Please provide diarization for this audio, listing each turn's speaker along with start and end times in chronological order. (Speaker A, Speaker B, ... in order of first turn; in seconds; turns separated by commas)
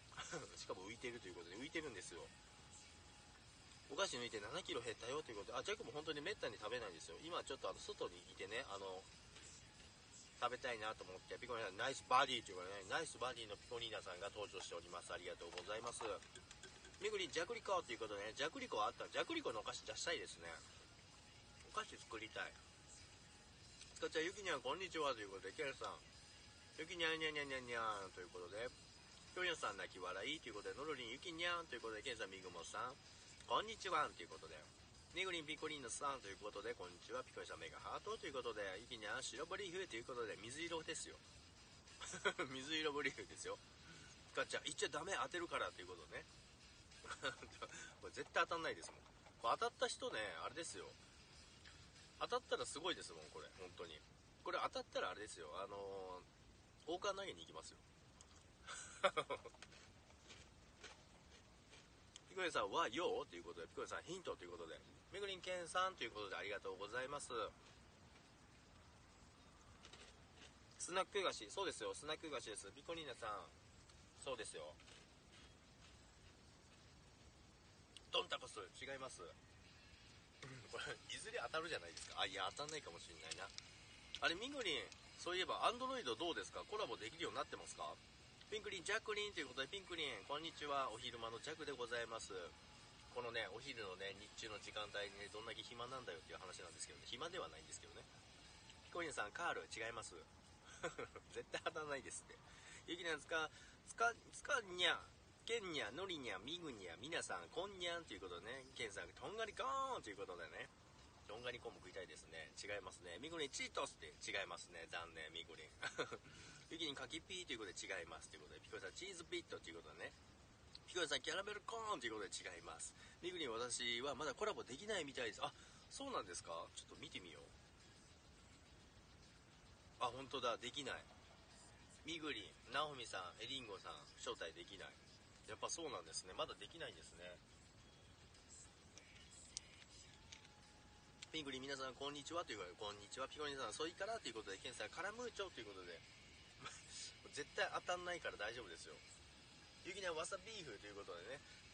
Speaker A: 0.1-2.3, Speaker A: 3.9-9.1, Speaker A: 10.4-16.2, Speaker A: 17.0-20.6, Speaker A: 21.6-22.6, Speaker A: 23.9-26.0, Speaker A: 26.8-28.7, Speaker A: 29.3-41.2, Speaker A: 42.0-43.6, Speaker A: 44.3-46.3, Speaker A: 47.0-51.0, Speaker A: 52.2-56.2, Speaker A: 56.9-57.8, Speaker A: 59.0-59.5, Speaker A: 62.3-67.5, Speaker A: 70.8-73.5, Speaker A: 74.2-74.8, Speaker A: 78.1-79.3, Speaker A: 80.4-83.5, Speaker A: 84.2-92.5, Speaker A: 93.1-98.1, Speaker A: 98.9-100.3, Speaker A: 100.8-110.7, Speaker A: 111.3-120.1, Speaker A: 120.8-127.5, Speaker A: 130.0-131.1, Speaker A: 132.0-137.4, Speaker A: 141.3-146.0, Speaker A: 146.6-149.0, Speaker A: 149.8-151.4